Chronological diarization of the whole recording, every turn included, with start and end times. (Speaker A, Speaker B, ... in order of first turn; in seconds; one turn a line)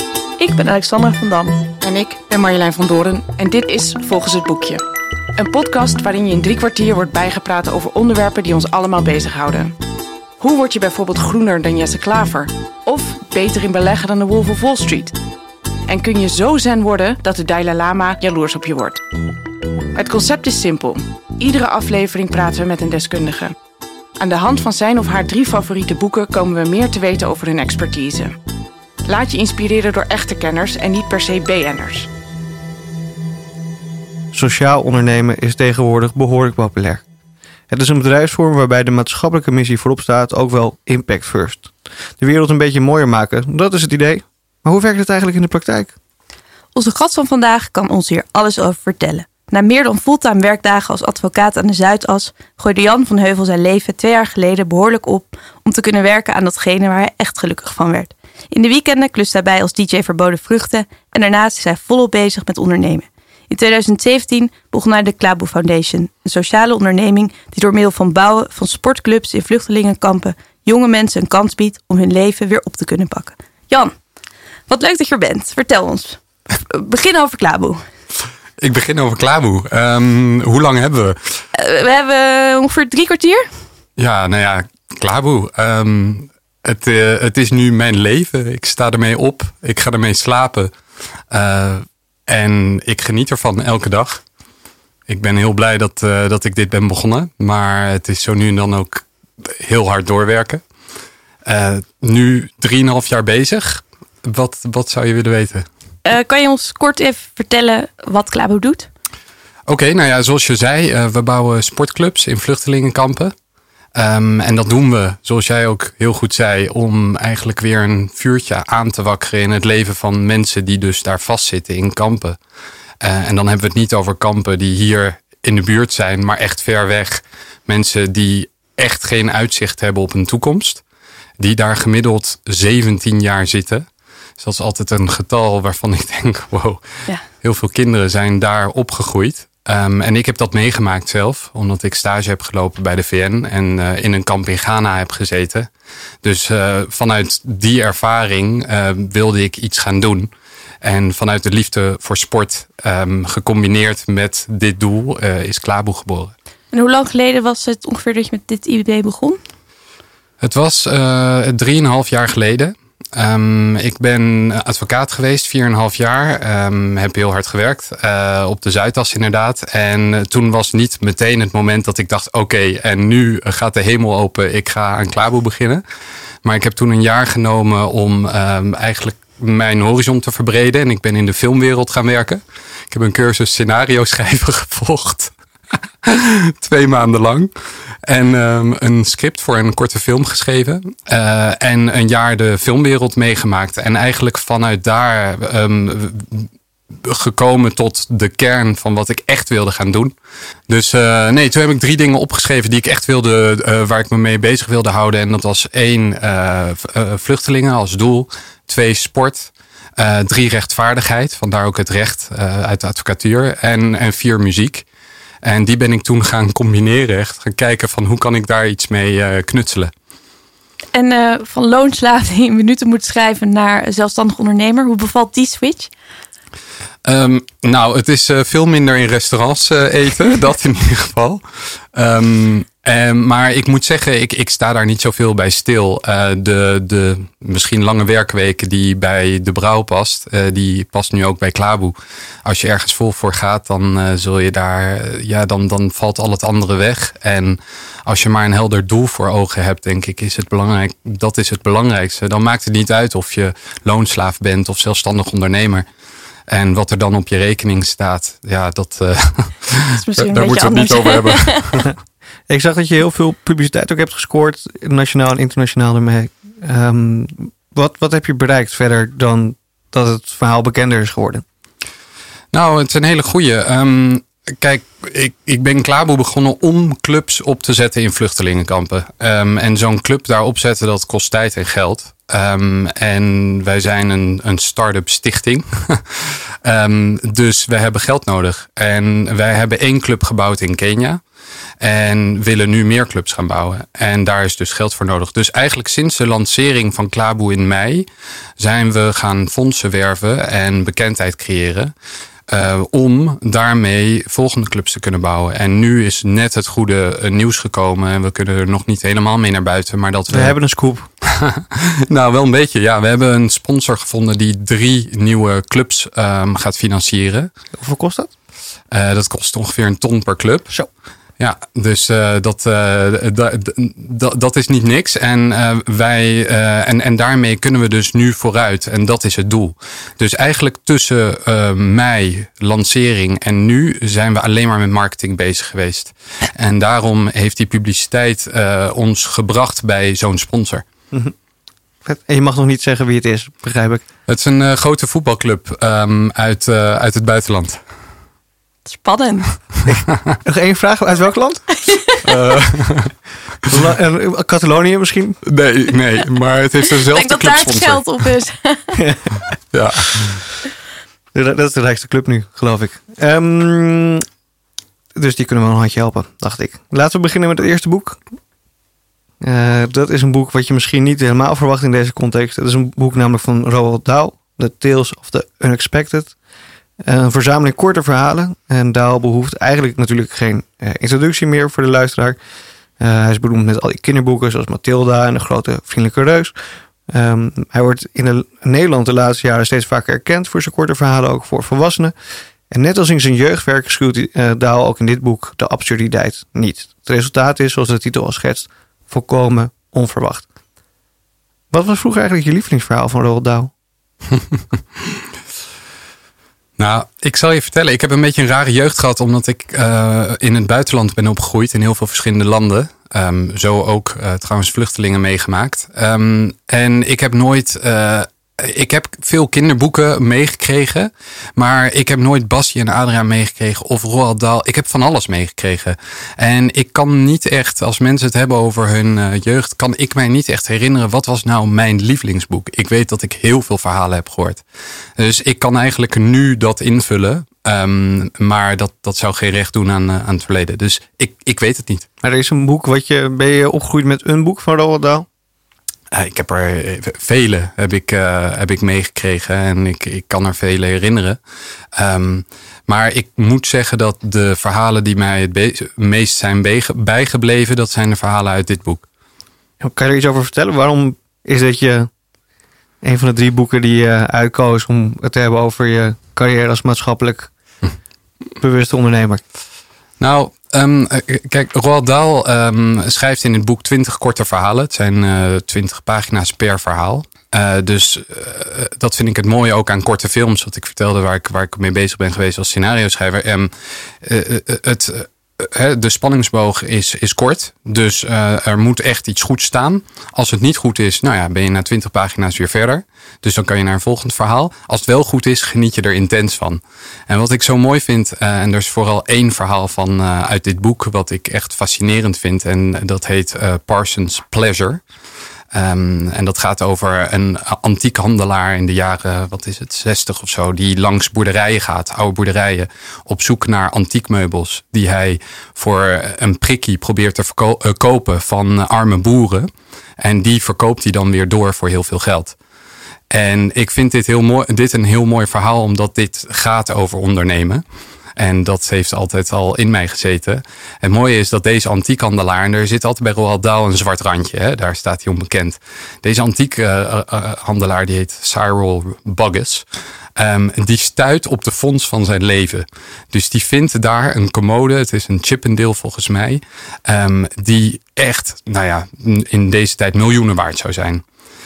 Speaker A: 0.4-1.6
Speaker B: 1.8-4.8
Speaker B: 5.3-9.7
Speaker B: 10.4-15.2
Speaker B: 15.9-19.0
Speaker B: 19.9-23.5
Speaker B: 24.2-28.3
Speaker B: 29.0-32.1
Speaker C: 34.3-37.0
Speaker C: 37.7-45.9
Speaker A: 46.7-73.9
Speaker A: 74.7-77.8
Speaker D: 78.6-81.3
Speaker A: 81.5-83.5
Speaker D: 84.0-90.7
Speaker D: 91.3-94.2
Speaker D: 95.1-100.6
Speaker D: 101.4-105.7
Speaker A: 106.0-108.9
Speaker D: 109.7-113.3
Speaker D: 113.9-122.4
Speaker D: 123.0-130.8
Speaker D: 131.4-133.8
Speaker D: 134.4-136.8
Speaker D: 137.4-145.7
Speaker D: 146.2-150.3
Speaker D: 150.8-156.3
Speaker A: 156.7-159.4
Speaker D: 160.4-175.8
Speaker D: 176.4-185.3
Speaker D: 186.0-187.5
Speaker D: 188.0-200.1
Speaker D: 200.7-214.8
Speaker D: 215.4-219.9
Speaker A: 220.9-225.9
Speaker D: 227.0-231.4
Speaker D: 231.9-255.8
Speaker D: 256.5-261.9
Speaker A: 259.9-261.6
Speaker C: 262.5-271.4
Speaker D: 272.5-291.2
Speaker D: 291.8-298.1
Speaker D: 298.6-301.9
Speaker D: 302.5-310.6
Speaker C: 310.3-311.1
Speaker D: 311.2-317.5
Speaker C: 317.8-318.3
Speaker D: 318.9-320.7
Speaker D: 321.4-340.8
Speaker C: 342.0-344.0
Speaker D: 344.3-347.8
Speaker A: 348.9-349.5
Speaker C: 350.4-351.6
Speaker A: 351.8-352.4
Speaker D: 352.2-353.1
Speaker C: 353.7-355.4
Speaker D: 355.4-358.1
Speaker A: 357.0-359.0
Speaker C: 358.9-359.4
Speaker D: 359.7-360.4
Speaker C: 361.3-364.2
Speaker C: 365.1-368.2
Speaker C: 369.4-376.3
Speaker C: 377.0-382.4
Speaker C: 383.0-386.5
Speaker C: 387.1-392.1
Speaker C: 392.7-400.4
Speaker C: 401.7-403.7
Speaker D: 406.8-434.6
Speaker D: 435.2-442.1
Speaker C: 442.2-445.3
Speaker D: 446.1-451.4
Speaker D: 451.9-459.0
Speaker C: 459.8-462.1
Speaker C: 463.0-467.5
Speaker C: 468.6-469.4
Speaker D: 470.2-483.7
Speaker D: 484.2-505.0
Speaker D: 505.7-522.5
Speaker D: 523.3-527.8
Speaker D: 528.4-539.8
Speaker D: 540.4-551.2